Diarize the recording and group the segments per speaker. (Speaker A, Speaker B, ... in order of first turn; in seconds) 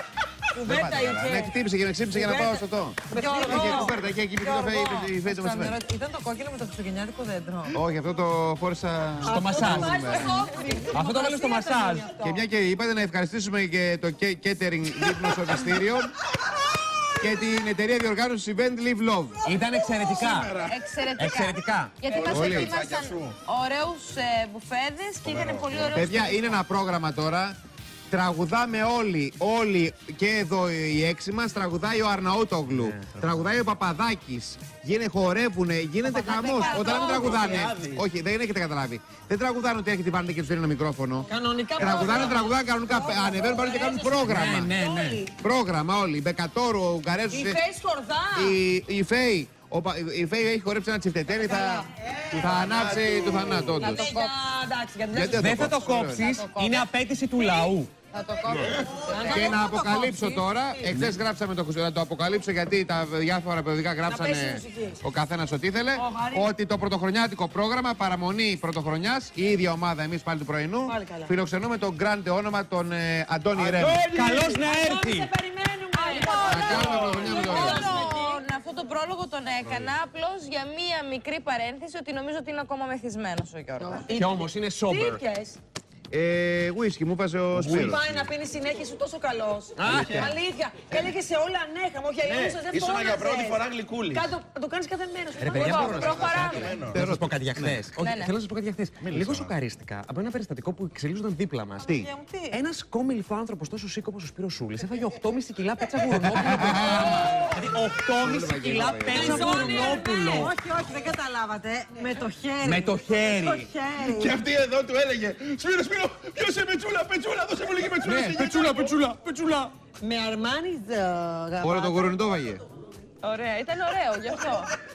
Speaker A: 0.5-1.5, 2.1-7.8, 9.2-12.4, 25.3-26.0, 36.0-37.6, 41.3-44.2, 44.7-45.3, 47.3-48.5, 51.4-51.8, 53.7-55.6, 59.0-60.9, 64.0-65.0, 66.0-66.5, 70.9-71.3, 74.1-78.4, 83.8-85.6, 87.6-96.4, 101.8-102.6, 109.1-114.4, 120.0-122.2
Speaker B: 0.7-5.8, 7.7-10.4, 12.2-16.1, 17.1-19.4, 22.2-22.7, 25.9-27.6, 28.1-44.7, 45.3-47.6, 48.3-54.1, 55.1-56.3, 59.3-74.0, 76.5-77.9, 86.1-88.0, 96.9-97.8, 106.3-107.3, 108.2-109.7, 121.6-122.6
Speaker C: 3.1-3.9, 10.1-10.4, 20.6-26.6, 36.5-37.5, 53.7-54.3, 55.9-59.6, 75.9-84.1, 95.5-96.8, 98.0-98.3, 123.2-124.7
Speaker D: 9.2-10.0, 10.9-12.1, 19.4-20.6, 21.1-22.1, 32.8-33.4, 44.2-45.2, 55.3-57.9, 73.8-75.3, 84.1-85.2, 87.6-88.2, 89.8-90.3, 95.4-110.5, 112.6-113.7, 118.0-119.7
Speaker E: 20.0-20.8, 22.1-23.3, 25.2-25.9, 36.7-38.0, 52.3-53.8, 58.5-59.0, 73.5-74.6, 76.5-77.3, 87.7-88.1, 89.8-90.3, 92.2-94.3, 95.9-97.0, 99.0-99.5, 114.0-119.0